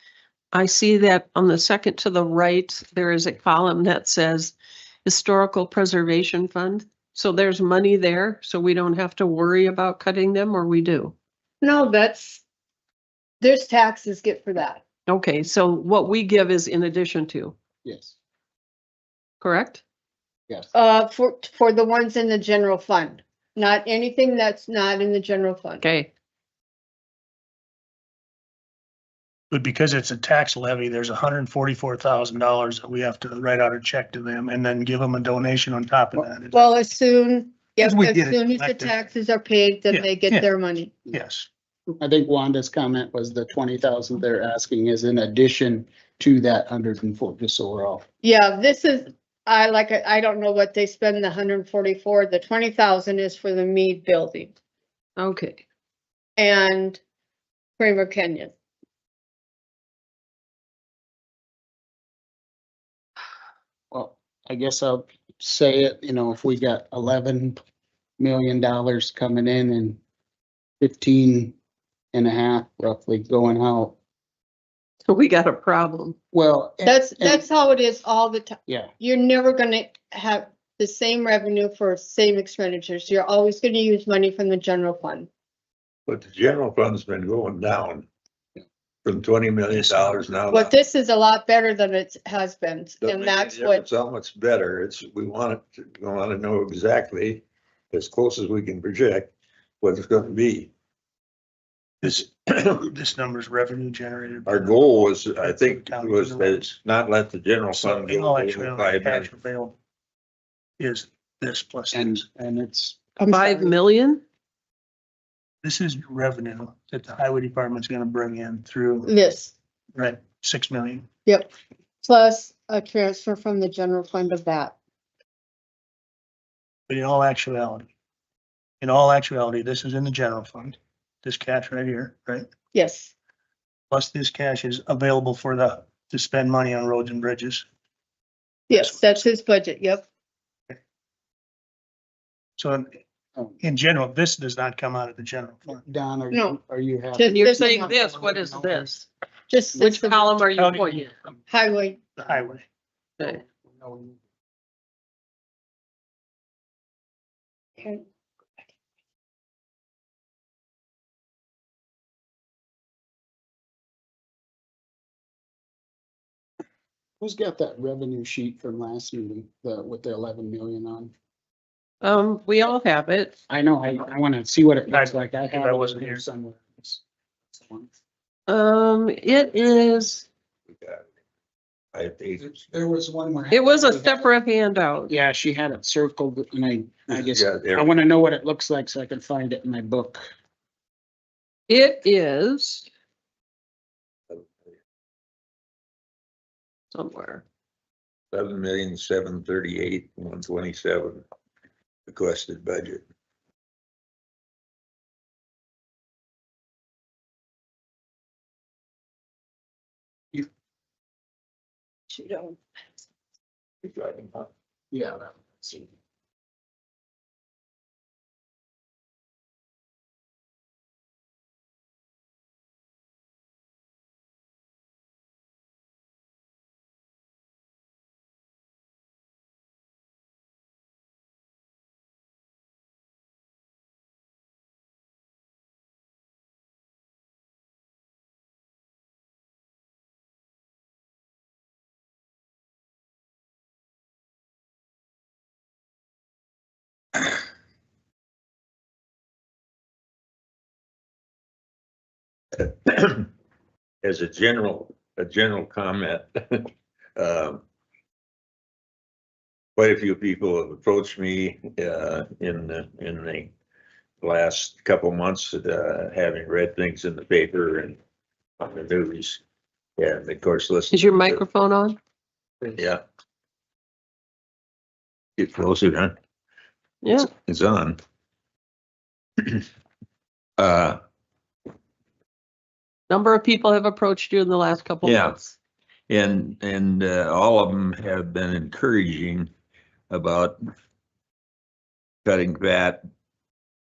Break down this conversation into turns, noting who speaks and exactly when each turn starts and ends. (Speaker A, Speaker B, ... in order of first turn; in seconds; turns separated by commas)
Speaker A: 0.5-11.2, Speaker B: 11.6-12.4, Speaker B: 13.4-14.8, Speaker A: 15.1-17.6, Speaker C: 17.8-18.2, Speaker A: 19.4-19.8, Speaker B: 20.7-25.8, Speaker A: 25.8-26.1, Speaker D: 29.5-36.6, Speaker B: 36.5-41.0, Speaker D: 37.8-39.0, Speaker D: 39.9-40.5, Speaker D: 41.1-41.5, Speaker C: 42.0-48.0, Speaker B: 48.2-54.5, Speaker A: 55.2-55.6, Speaker B: 56.4-57.0, Speaker B: 57.8-58.5, Speaker C: 63.9-67.6, Speaker C: 68.2-70.0, Speaker C: 70.8-71.5, Speaker C: 72.1-74.0, Speaker A: 75.0-76.2, Speaker C: 76.3-77.4, Speaker B: 76.8-85.3, Speaker C: 78.7-78.9, Speaker E: 86.1-88.1, Speaker E: 89.0-90.7, Speaker D: 89.7-90.3, Speaker B: 90.5-93.8, Speaker E: 93.0-100.7, Speaker D: 102.0-106.7, Speaker E: 104.5-109.3, Speaker D: 107.7-109.8, Speaker D: 110.8-112.2, Speaker C: 111.9-113.0, Speaker B: 113.2-113.8, Speaker A: 113.2-114.2, Speaker D: 115.6-119.1, Speaker B: 119.0-119.5, Speaker D: 119.9-121.1, Speaker B: 121.2-121.5, Speaker B: 122.0-124.8, Speaker D: 126.9-127.9, Speaker D: 128.8-132.5, Speaker B: 132.7-133.1, Speaker D: 133.9-137.7, Speaker B: 138.7-140.1, Speaker D: 138.7-139.1, Speaker D: 142.6-142.9, Speaker D: 143.6-145.8, Speaker C: 145.8-148.9, Speaker B: 146.3-146.6, Speaker B: 147.2-148.1, Speaker A: 147.2-149.1, Speaker B: 149.5-150.2, Speaker A: 149.8-151.1, Speaker D: 150.6-151.2, Speaker B: 151.5-152.2, Speaker D: 152.2-152.6, Speaker C: 153.2-154.2, Speaker C: 167.2-171.1, Speaker A: 172.0-173.4, Speaker C: 173.5-177.9, Speaker D: 174.9-176.2, Speaker A: 178.5-180.3, Speaker E: 180.7-181.1, Speaker E: 181.9-182.5, Speaker C: 182.4-184.3, Speaker A: 183.5-185.1, Speaker C: 185.1-190.2, Speaker E: 187.1-187.9, Speaker A: 191.7-192.9, Speaker A: 196.9-197.4, Speaker E: 198.3-201.2, Speaker E: 202.1-203.0, Speaker E: 213.8-214.5, Speaker C: 214.9-215.9, Speaker E: 252.6-253.3, Speaker E: 254.0-257.6, Speaker E: 259.8-263.5, Speaker E: 264.2-268.0, Speaker E: 268.6-269.4, Speaker E: 270.0-271.4, Speaker A: 270.9-272.0, Speaker E: 272.7-273.0, Speaker E: 275.4-276.1, Speaker A: 277.0-277.3, Speaker E: 277.2-278.0, Speaker E: 279.4-279.7, Speaker E: 280.6-281.0, Speaker A: 283.1-285.5, Speaker E: 285.0-285.4, Speaker E: 286.1-289.5, Speaker E: 290.1-290.6, Speaker E: 292.2-293.0